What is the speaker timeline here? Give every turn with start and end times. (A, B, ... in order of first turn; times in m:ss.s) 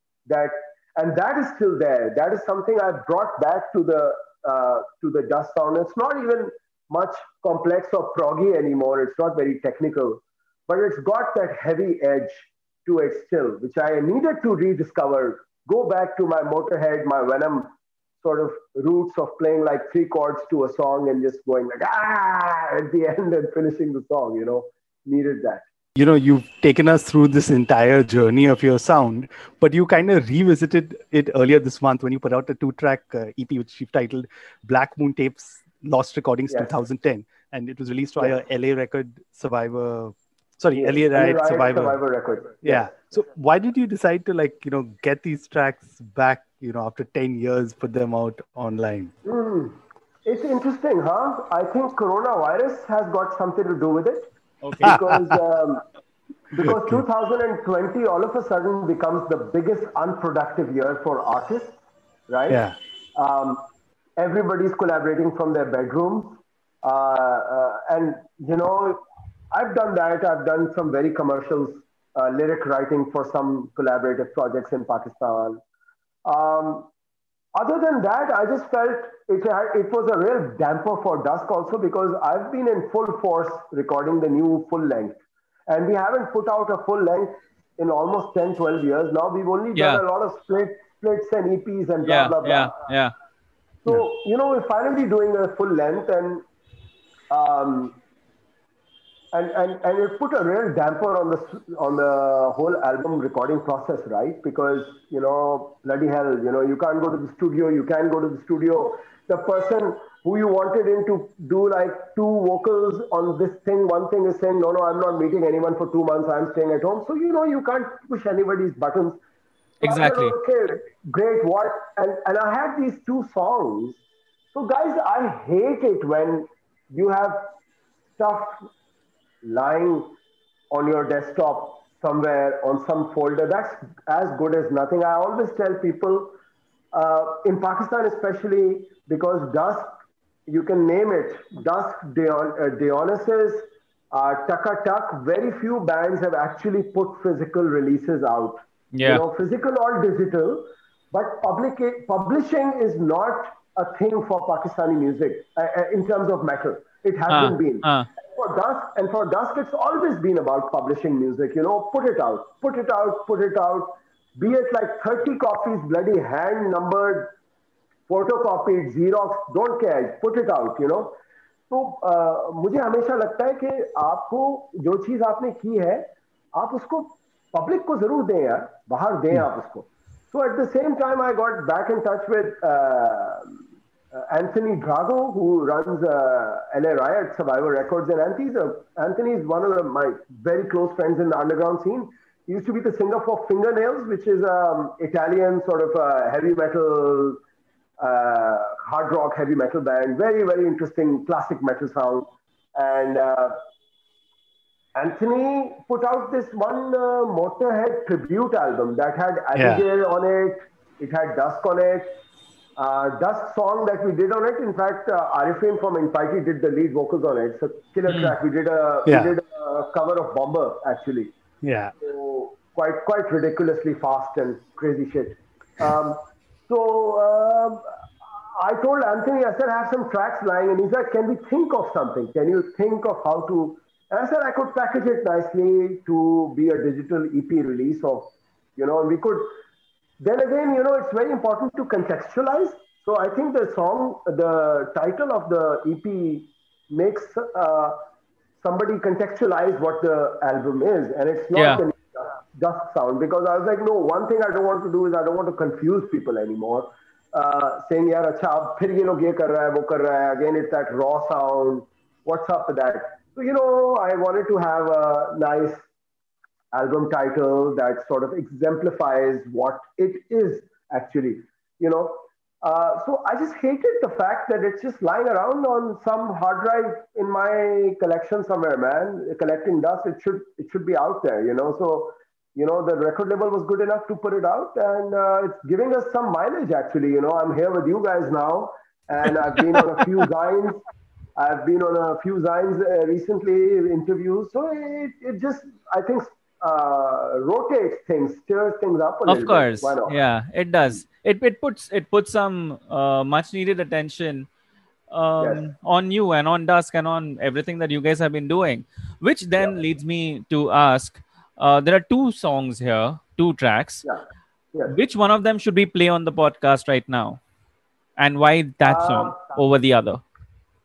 0:00.3-0:25.6 A
0:26.0-0:42.0 B
0:36.5-0:36.8 A
0:40.7-0:42.9 A
0:42.6-0:49.1 B
0:49.2-0:54.3 A
0:54.6-0:55.0 C
0:54.8-0:55.8 A
0:54.8-0:55.3 B
0:56.5-1:01.8 A
0:56.6-0:57.0 B
1:02.3-1:02.6 A
1:02.5-1:02.8 B
1:03.2-1:03.6 A
1:04.2-1:15.6 A
1:16.2-1:16.9 A
1:17.5-1:32.7 A
1:29.8-1:30.0 C
1:32.1-1:33.1 C
1:33.8-1:36.4 A
1:37.3-1:38.0 A
1:39.3-1:59.2 A
1:59.8-2:00.3 C
1:59.8-2:04.0 A
2:04.5-2:07.5 A
2:08.2-2:08.7 A
2:09.4-2:10.1 A
2:10.7-2:16.3 A
2:16.9-2:19.9 A
2:20.5-2:47.3 A
2:28.9-2:29.2 C
2:37.3-2:38.1 C
2:48.1-2:51.1 A
2:51.7-3:03.6 A
3:04.1-3:17.4 A
3:18.0-3:23.6 A
3:24.9-3:32.2 A
3:29.5-3:29.8 B
3:32.8-3:41.3 A
3:38.1-3:38.3 C
3:39.0-3:39.3 B
3:41.6-3:41.9 B
3:42.0-3:47.9 A
3:48.6-3:59.6 A
4:00.2-4:08.0 A
4:08.6-4:25.9 A
4:11.5-4:11.8 C
4:26.7-4:50.8 A
4:51.4-5:00.1 A
4:59.3-5:04.5 C
5:05.1-5:14.0 C
5:05.4-5:05.7 A
5:14.9-5:17.4 C
5:18.2-5:20.2 C
5:18.8-5:19.6 A